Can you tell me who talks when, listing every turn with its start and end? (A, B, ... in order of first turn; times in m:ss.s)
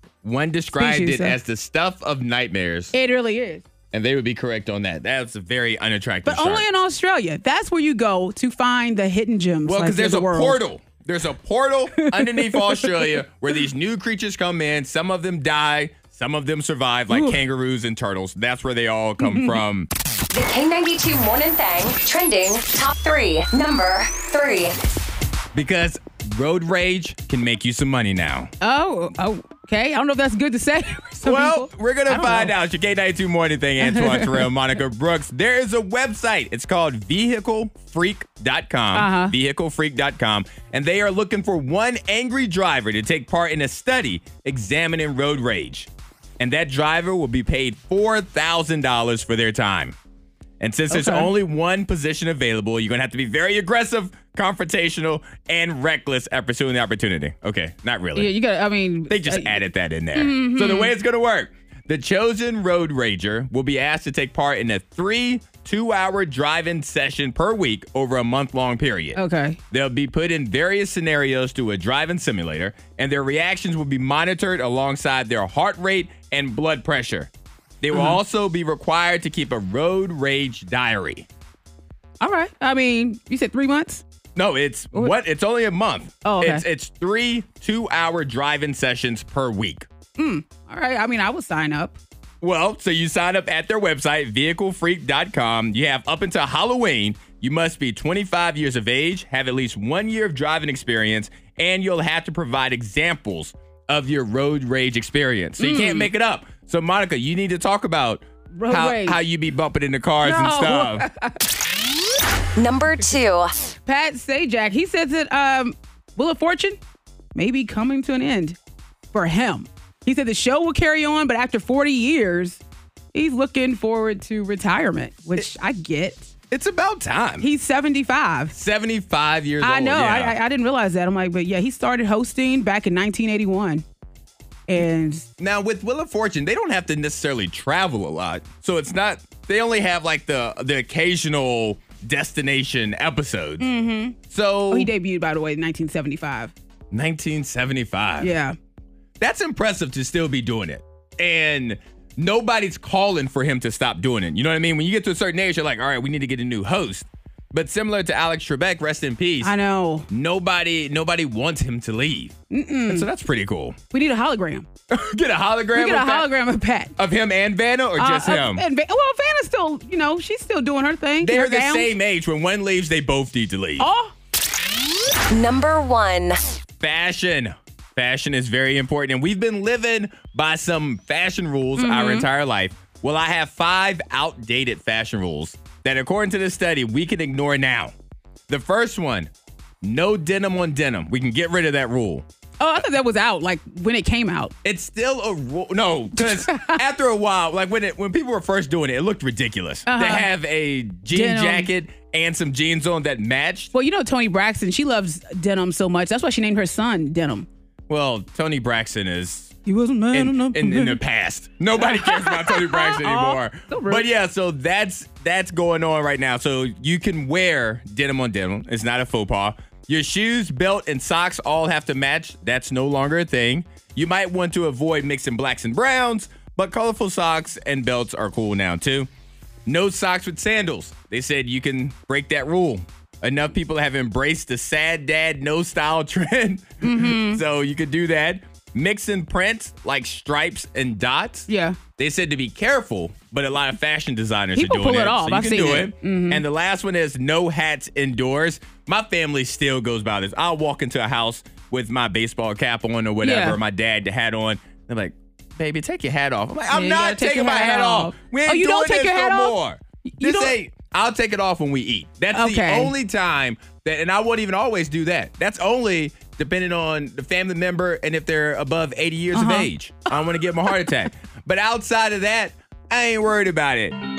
0:00.2-0:02.9 A
0:00.8-0:01.4 B
0:02.9-0:03.6 B
0:03.9-0:06.6 A
0:06.2-0:10.6 B
0:09.6-0:19.9 A
0:12.0-0:13.1 B
0:17.1-0:17.4 B
0:19.2-0:19.6 B
0:20.3-0:24.8 C
0:25.5-0:28.5 A
0:28.6-0:32.5 B
0:31.2-0:50.0 A
0:33.8-0:34.5 B
0:38.9-0:39.4 B
0:50.6-0:58.3 A
0:50.9-0:51.3 B
0:58.2-0:59.6 B
0:59.1-1:09.2 A
1:00.1-1:00.9 B
1:09.2-1:09.6 B
1:09.7-1:17.3 A
1:17.8-1:21.3 A
1:17.9-1:18.2 B
1:22.2-1:24.0 B
1:24.4-1:29.9 A
1:26.2-1:26.6 B
1:30.2-1:32.0 B
1:32.4-1:51.0 A
1:45.6-1:46.1 B
1:48.6-1:49.2 B
1:50.2-1:51.4 B
1:52.6-1:53.5 C
1:53.9-1:56.8 B
1:57.4-1:58.6 B
1:59.1-2:02.6 B
2:03.1-2:06.3 B
2:06.5-2:07.5 A
2:07.4-2:08.5 B
2:08.5-2:10.4 A
2:09.6-2:13.8 B
2:14.7-2:15.3 B
2:15.4-2:23.7 A
2:23.6-2:24.2 B
2:24.3-2:24.9 A
2:24.7-2:26.5 B
2:26.9-2:28.3 A
2:28.2-2:28.6 B
2:29.2-2:39.6 A
2:39.4-2:40.1 B
2:40.1-2:42.4 A
2:42.5-2:43.1 B
2:42.9-2:43.8 A
2:43.9-2:44.7 B
2:44.9-2:46.3 A
2:45.8-2:46.9 B
2:47.0-2:48.6 A
2:48.0-2:51.9 B
2:51.2-2:53.9 A
2:53.8-2:54.1 B
2:55.3-2:56.4 C
2:56.8-3:07.9 A
3:01.8-3:02.3 B
3:08.5-3:09.3 A
3:09.8-3:12.3 A
3:12.6-3:14.5 B
3:14.6-3:23.7 A
3:16.2-3:16.8 B
3:19.9-3:20.3 B
3:21.1-3:21.7 B
3:23.7-3:27.5 B
3:27.9-3:29.6 A
3:29.7-3:31.0 B
3:30.1-3:49.1 A
3:31.8-3:34.1 B
3:49.7-4:34.0 A
3:56.8-3:57.4 B
4:01.5-4:01.8 B
4:04.6-4:06.4 B
4:13.2-4:13.6 B
4:16.7-4:19.6 B
4:20.1-4:20.5 B
4:22.3-4:22.9 B
4:29.3-4:29.7 B